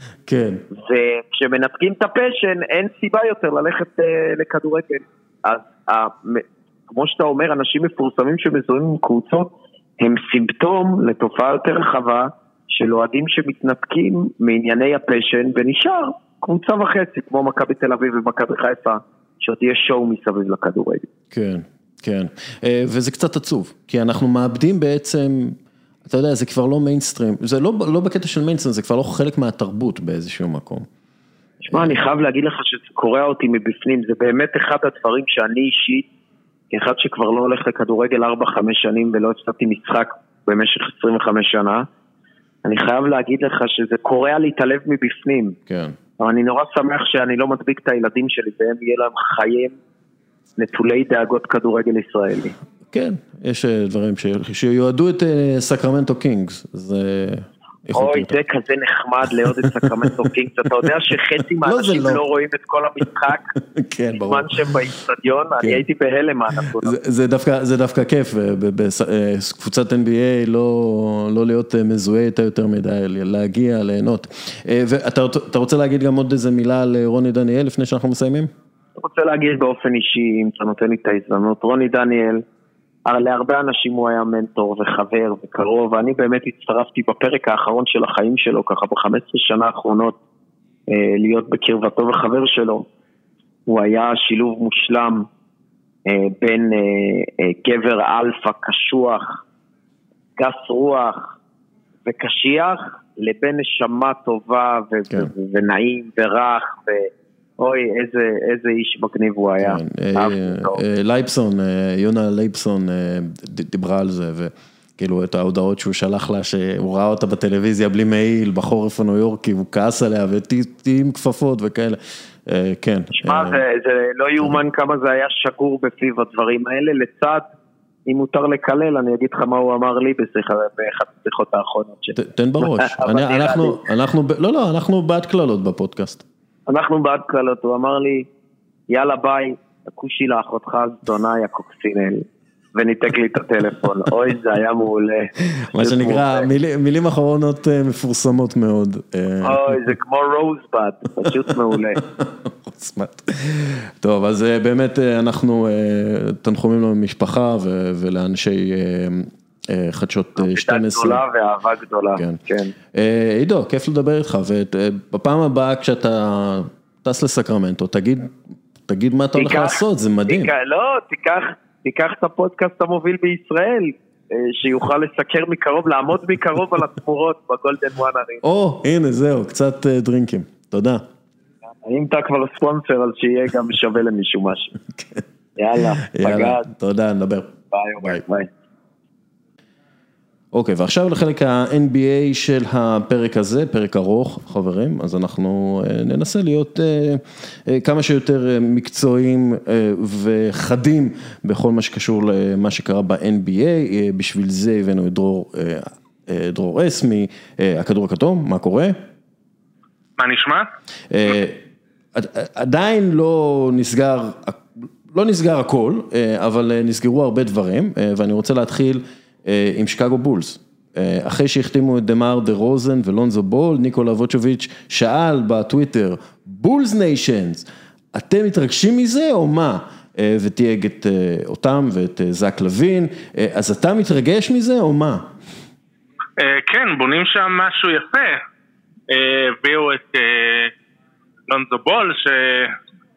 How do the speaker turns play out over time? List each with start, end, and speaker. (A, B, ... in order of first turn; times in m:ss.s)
0:00.3-0:00.6 A
0:00.7-0:21.1 B
0:21.3-0:30.8 A
0:31.6-0:36.1 B
0:31.7-0:32.0 A
0:36.7-0:41.8 B
0:42.6-0:45.6 B
0:45.7-0:45.9 A
0:46.2-0:49.8 B
0:50.6-0:52.6 B
0:52.9-0:58.3 A
0:57.9-1:03.5 B
0:59.6-1:00.1 A
1:01.6-1:02.2 A
1:03.6-1:04.7 A
1:04.1-1:07.0 B
1:06.6-1:18.5 A
1:19.0-1:22.4 B
1:23.0-1:30.2 B
1:30.9-1:32.9 B
1:33.7-1:35.3 B
1:36.0-1:39.4 B
1:40.4-1:41.3 B
1:42.0-1:50.8 B
1:49.6-2:03.6 A
2:03.2-2:07.4 B
2:08.1-2:13.8 B
2:12.1-2:16.2 A
2:16.7-2:18.3 B
2:18.9-2:26.5 B
2:25.7-2:29.9 A
2:29.4-2:32.0 B
2:32.2-2:41.2 A
2:40.4-2:42.7 B
2:42.2-2:42.4 A
2:42.9-2:48.4 A
2:48.9-2:50.5 A
2:49.3-2:58.4 B
2:58.4-3:01.0 A
3:01.8-3:04.8 B
3:05.6-3:06.6 B
3:06.0-3:08.2 A
3:07.7-3:08.5 B
3:10.5-3:29.0 A
3:30.2-3:30.7 C
3:31.1-3:31.6 A
3:32.1-3:55.3 A
3:56.4-3:58.4 C
3:59.1-4:00.7 C
4:01.5-4:02.8 C